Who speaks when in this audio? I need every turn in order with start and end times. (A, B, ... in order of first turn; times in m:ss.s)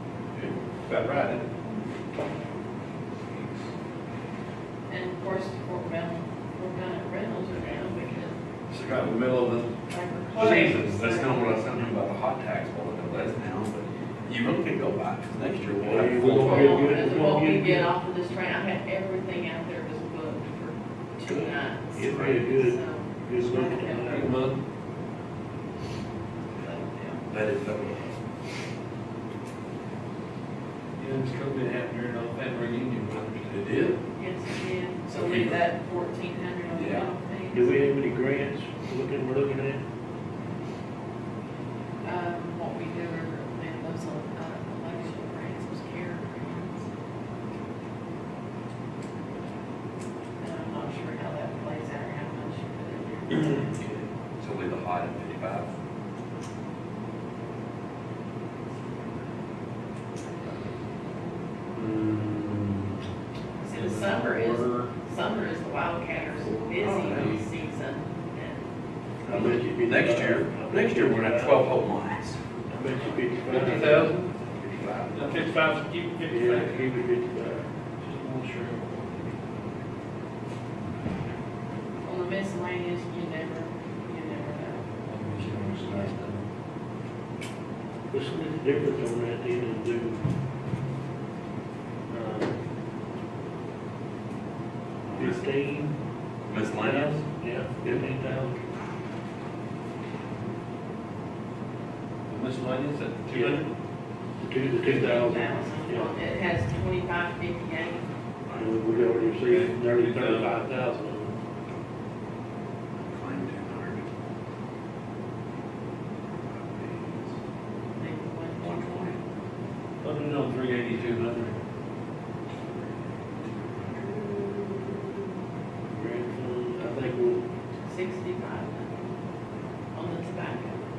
0:00.8-0:01.4 A
0:04.9-0:08.4 B
0:08.7-0:09.7 A
0:09.9-0:11.4 B
0:10.3-0:10.9 A
0:10.4-0:16.9 C
0:15.8-0:17.9 D
0:16.0-0:16.7 A
0:16.3-0:24.0 B
0:21.3-0:24.3 D
0:22.0-0:22.3 C
0:24.0-0:24.6 A
0:26.5-0:27.2 B
0:27.3-0:28.2 C
0:31.0-0:33.7 A
0:33.6-0:34.0 C
0:34.1-0:37.8 B
0:35.1-0:35.6 C
0:36.7-0:37.1 C
0:37.5-0:39.8 D
0:42.0-0:46.9 B
0:50.4-0:53.7 B
0:53.8-0:55.7 C
1:01.7-1:02.9 A
1:03.6-1:08.6 B
1:03.7-1:04.9 A
1:06.6-1:07.4 C
1:09.2-1:11.7 D
1:09.3-1:12.4 C
1:12.7-1:14.1 D
1:13.5-1:14.4 A
1:14.6-1:15.1 C
1:15.1-1:16.9 A
1:16.3-1:17.7 D
1:18.0-1:19.6 A
1:22.0-1:24.9 B
1:25.0-1:26.4 A
1:28.1-1:30.2 D
1:32.1-1:32.6 D
1:35.0-1:35.4 C
1:35.2-1:35.9 D
1:36.5-1:37.2 C
1:36.8-1:38.6 D
1:42.3-1:43.6 A
1:43.3-1:43.6 D
1:44.4-1:46.1 D
1:44.8-1:48.1 B
1:48.5-1:49.2 C
1:48.5-1:51.3 D
1:49.4-1:50.5 A
1:53.0-1:54.0 C
1:56.4-1:57.3 C
1:58.0-1:58.7 B
1:58.6-1:59.2 C
2:00.0-2:01.6 A
2:02.6-2:04.4 C
2:05.9-2:07.4 D
2:07.8-2:09.1 B
2:09.9-2:10.8 B